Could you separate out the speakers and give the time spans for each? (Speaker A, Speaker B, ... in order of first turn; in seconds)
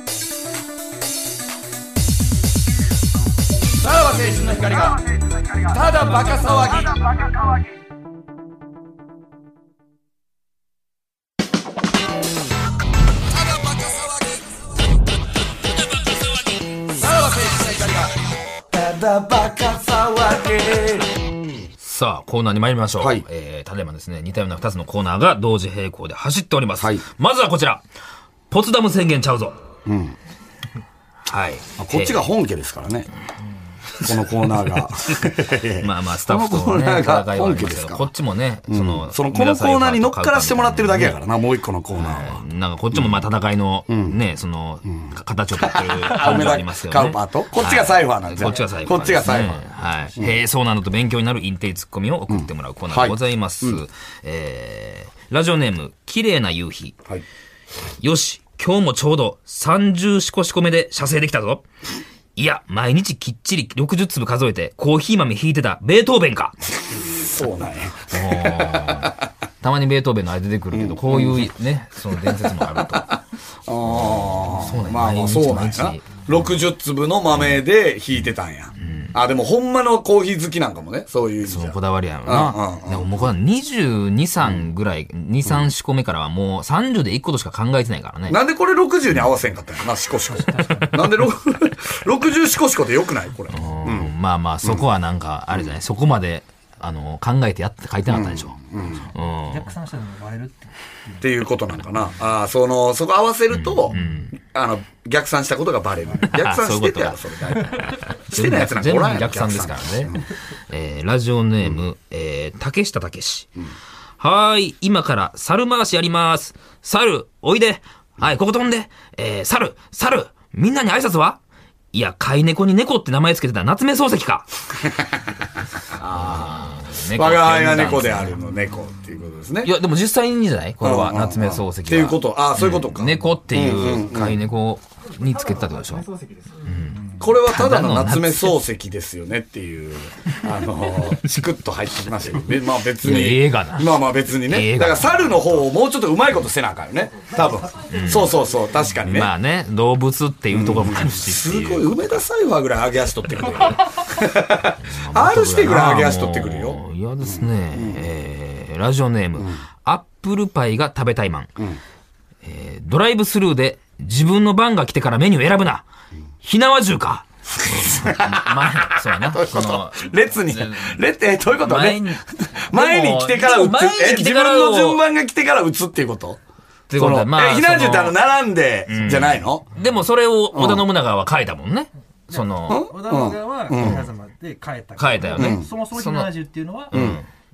Speaker A: 3.8-7.3, 13.4-14.4, 16.9-21.5, 23.0-23.2, 26.8-27.0, 29.9-30.1, 31.8-33.1, 34.0-38.1, 38.7-43.2, 43.9-44.1, 45.6-49.6, 52.3-53.8, 67.1-69.1, 70.7-71.5, 72.4-83.1, 88.3-94.1, 98.1-99.1, 101.2-110.2, 124.8-125.2, 126.0-129.7, 130.8-134.4, 137.2-149.3, 150.5-158.0, 167.7-176.4, 176.9-179.7, 180.5-180.9, 182.7-184.0, 185.4-185.7, 186.9-187.2
Speaker B: 21.8-27.8, 28.5-29.6, 31.3-32.3, 35.8-41.2, 42.0-57.0, 58.0-61.6, 62.4-66.6, 68.1-73.2, 73.9-76.4, 77.3-77.6, 78.8-79.2, 81.5-88.4, 93.5-98.5, 99.1-99.7, 103.5-104.4, 106.3-113.5, 114.2-121.4, 121.9-124.5, 126.1-128.4, 129.6-136.1, 136.6-138.6, 143.0-145.7, 147.9-148.4, 149.0-152.2, 154.8-161.5, 162.4-165.8, 166.4-171.0, 171.6-172.2, 172.7-175.0, 176.9-178.2, 178.9-182.8, 183.8-184.1, 185.0-186.3, 186.9-187.3
Speaker C: 90.3-91.0, 99.5-101.2, 182.3-187.2